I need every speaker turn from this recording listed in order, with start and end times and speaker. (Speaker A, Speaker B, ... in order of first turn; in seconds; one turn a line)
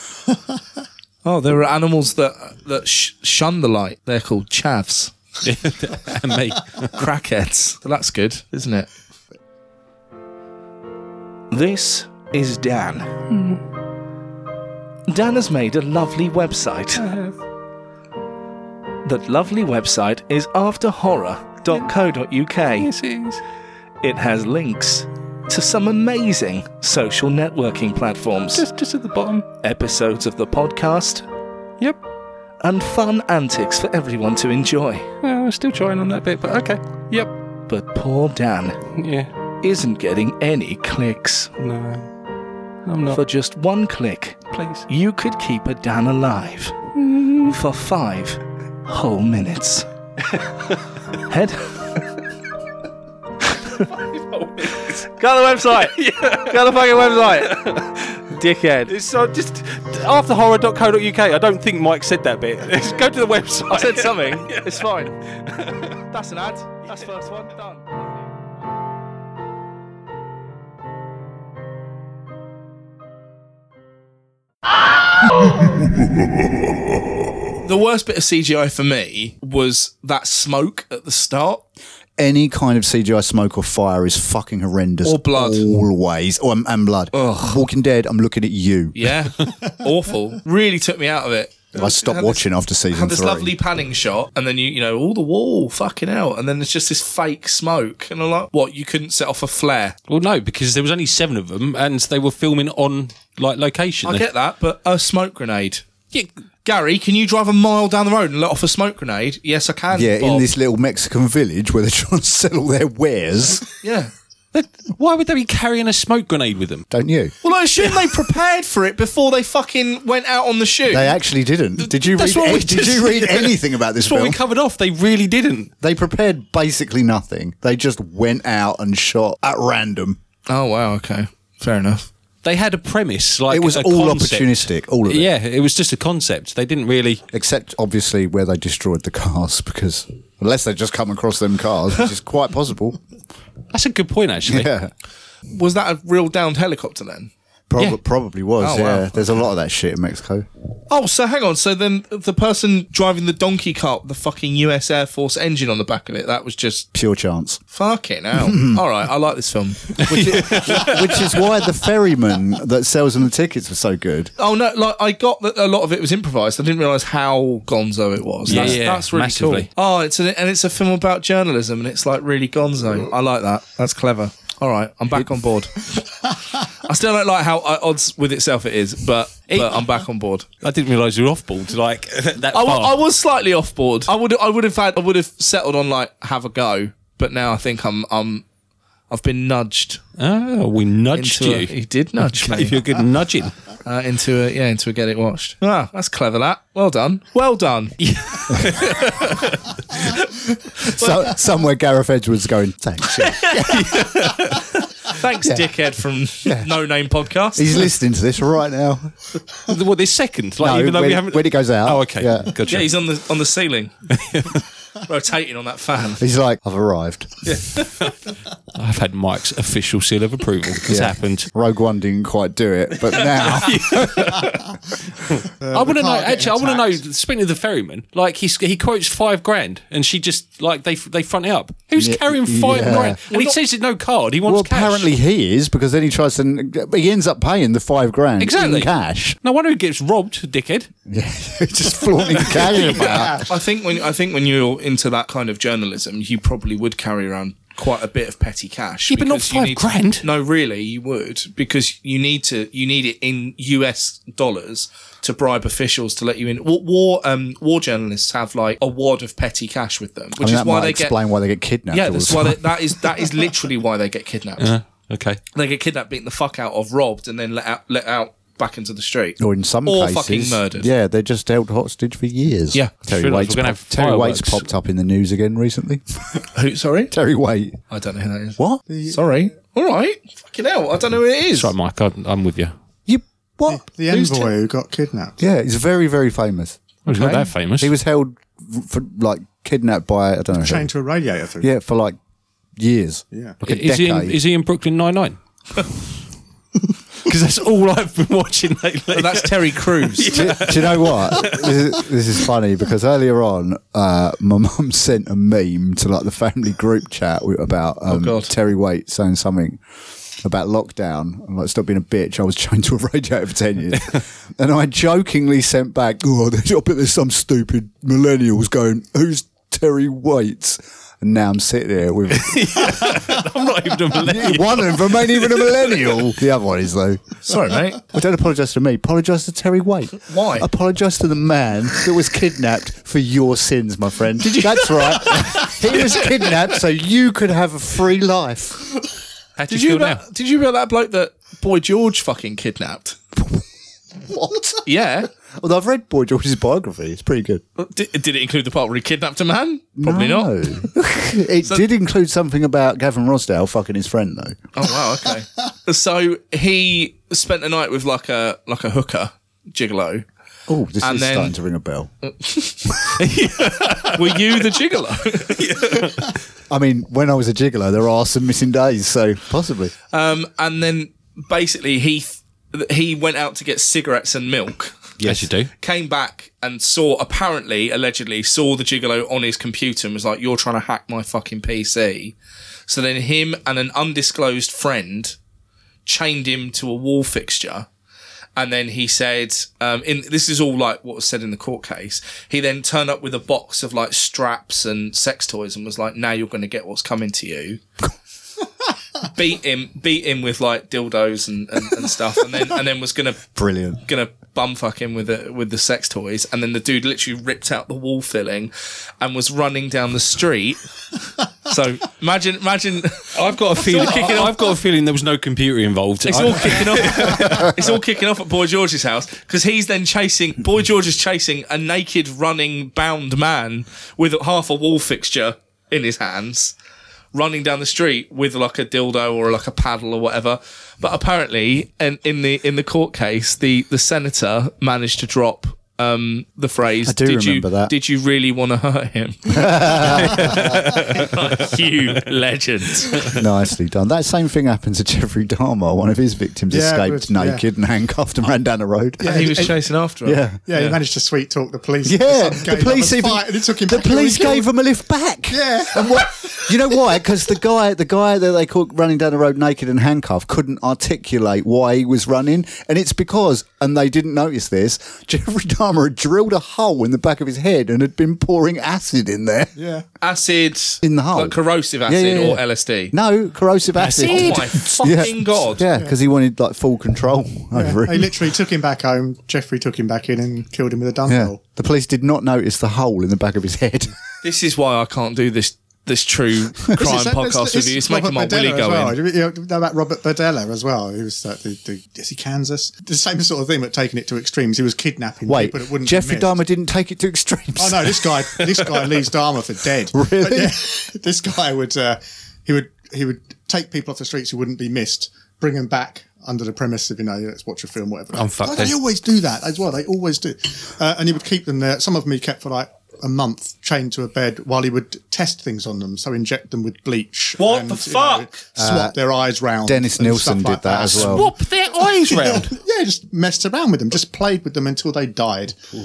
Speaker A: 1.2-5.1
Speaker B: 5.4-7.0
Speaker A: 6.9-8.9
Speaker A: 11.5-13.2
Speaker B: 13.3-13.6
Speaker A: 15.1-17.1
Speaker B: 17.0-17.4
Speaker A: 19.0-22.9
Speaker B: 22.8-23.4
Speaker A: 24.0-28.6
Speaker B: 28.5-29.4
Speaker A: 29.6-31.2
Speaker A: 32.6-35.1
Speaker B: 35.2-37.3
Speaker A: 37.7-38.8
Speaker B: 38.9-39.3
Speaker A: 39.6-41.6
Speaker B: 41.6-42.1
Speaker B: 42.9-43.2
Speaker A: 43.1-49.9
Speaker B: 44.5-44.9
Speaker B: 47.0-47.5
Speaker B: 50.3-50.7
Speaker A: 51.2-51.8
Speaker B: 53.8-55.0
Speaker A: 54.7-57.6
Speaker B: 55.7-58.3
Speaker A: 58.3-58.9
Speaker B: 58.9-64.8
Speaker A: 63.7-65.1
Speaker B: 65.5-65.9
Speaker A: 66.0-67.9
Speaker A: 77.6-81.6
Speaker C: 82.2-89.1
Speaker A: 85.0-85.8
Speaker A: 87.1-87.6
Speaker A: 88.9-100.0
Speaker C: 91.7-93.5
Speaker B: 100.1-104.2
Speaker A: 104.0-105.8
Speaker A: 106.6-110.5
Speaker C: 109.9-113.7
Speaker A: 113.8-114.1
Speaker B: 114.5-116.9
Speaker C: 116.9-117.3
Speaker A: 117.4-121.2
Speaker C: 120.9-124.4
Speaker A: 122.0-123.4
Speaker B: 124.0-125.7
Speaker C: 125.8-130.2
Speaker A: 130.5-132.1
Speaker B: 132.4-137.2
Speaker C: 133.5-135.3
Speaker C: 137.3-143.0
Speaker B: 143.7-144.7
Speaker C: 144.4-144.9
Speaker A: 145.5-147.3
Speaker C: 147.7-150.4
Speaker A: 148.6-149.2
Speaker A: 150.9-156.9
Speaker C: 156.9-157.6
Speaker A: 157.7-161.0
Speaker C: 158.3-158.8
Speaker B: 160.0-161.4
Speaker C: 160.0-164.3
Speaker A: 164.4-175.8
Speaker B: 168.5-169.7
Speaker C: 168.5-168.8
Speaker A: 176.7-180.5
Speaker B: 179.5-180.0
Speaker B: 180.6-183.0
Speaker A: 182.5-188.4
Speaker A: 189.1-190.0
Speaker B: 190.2-193.6
Speaker A: 191.1-192.8
Speaker A: 193.8-198.0
Speaker B: 198.0-200.2
Speaker C: 198.5-198.8
Speaker C: 200.8-203.8
Speaker A: 203.1-207.9
Speaker B: 203.6-204.7
Speaker C: 205.4-205.7
Speaker C: 206.4-206.7
Speaker C: 207.5-209.1
Speaker B: 209.6-212.9
Speaker C: 210.6-212.6
Speaker A: 212.7-213.9
Speaker B: 214.1-214.6
Speaker A: 215.1-216.2
Speaker C: 216.2-217.6
Speaker B: 217.5-218.1
Speaker B: 218.7-221.5
Speaker C: 220.8-224.5
Speaker B: 223.1-224.8
Speaker B: 225.3-235.1
Speaker D: 225.6-227.0
Speaker C: 232.0-233.2
Speaker A: 232.9-233.6
Speaker C: 234.4-239.4
Speaker B: 238.4-238.9
Speaker B: 239.4-240.9
Speaker C: 241.1-243.5
Speaker B: 242.3-243.4
Speaker A: 243.3-261.2
Speaker B: 249.1-250.2
Speaker C: 260.4-263.0
Speaker A: 261.9-264.7
Speaker B: 264.6-265.4
Speaker A: 265.5-270.9
Speaker C: 269.4-276.4
Speaker B: 273.1-274.6
Speaker A: 276.5-277.1
Speaker C: 277.1-277.8
Speaker A: 277.9-281.7
Speaker D: 278.9-279.2
Speaker B: 281.5-282.7
Speaker C: 283.1-284.5
Speaker D: 283.7-285.4
Speaker C: 285.4-286.8
Speaker B: 287.1-287.9
Speaker A: 287.1-287.5
Speaker C: 287.8-290.9
Speaker D: 290.6-291.7
Speaker C: 291.6-292.2
Speaker C: 292.8-294.4
Speaker B: 293.6-295.9
Speaker B: 297.2-301.9
Speaker A: 299.1-300.6
Speaker C: 300.3-309.8
Speaker A: 308.1-308.5
Speaker C: 310.4-323.4
Speaker B: 322.3-326.2
Speaker C: 324.1-327.4
Speaker A: 327.4-328.0
Speaker C: 328.0-338.9
Speaker A: 330.2-330.7
Speaker A: 334.4-336.5
Speaker B: 339.6-340.2
Speaker A: 339.7-343.2
Speaker C: 343.4-343.6
Speaker C: 344.3-344.8
Speaker A: 344.8-345.3
Speaker C: 345.6-347.6
Speaker A: 347.8-350.5
Speaker C: 350.0-354.6
Speaker A: 354.7-360.2
Speaker C: 360.7-362.1
Speaker A: 361.0-361.5
Speaker A: 362.2-363.4
Speaker B: 363.2-364.4
Speaker A: 364.0-365.8
Speaker B: 365.6-366.3
Speaker C: 366.7-369.9
Speaker A: 370.1-375.0
Speaker C: 375.2-375.4
Speaker B: 375.2-375.7
Speaker A: 375.8-382.4
Speaker A: 382.9-385.4
Speaker A: 386.1-387.9
Speaker A: 388.6-397.8
Speaker A: 399.2-403.4
Speaker C: 403.5-404.0
Speaker A: 404.0-410.8
Speaker A: 411.6-414.7
Speaker B: 413.3-417.8
Speaker A: 416.2-426.7
Speaker A: 427.3-443.4
Speaker C: 437.1-437.9
Speaker C: 439.5-440.8
Speaker B: 440.4-441.3
Speaker C: 443.3-449.7
Speaker D: 446.7-447.6
Speaker D: 449.2-449.8
Speaker A: 449.2-451.0
Speaker C: 450.2-450.6
Speaker D: 450.7-454.7
Speaker C: 452.0-469.7
Speaker D: 455.5-457.0
Speaker D: 469.8-470.1
Speaker A: 470.2-473.1
Speaker C: 471.0-478.3
Speaker A: 474.0-475.8
Speaker B: 474.2-474.6
Speaker D: 477.7-481.6
Speaker C: 481.3-484.1
Speaker A: 484.4-489.1
Speaker D: 486.9-496.6
Speaker C: 495.4-498.6
Speaker D: 497.8-525.8
Speaker C: 500.1-500.8
Speaker B: 508.3-509.0
Speaker A: 517.6-518.6
Speaker C: 518.8-519.1
Speaker C: 519.8-521.5
Speaker B: 521.1-522.8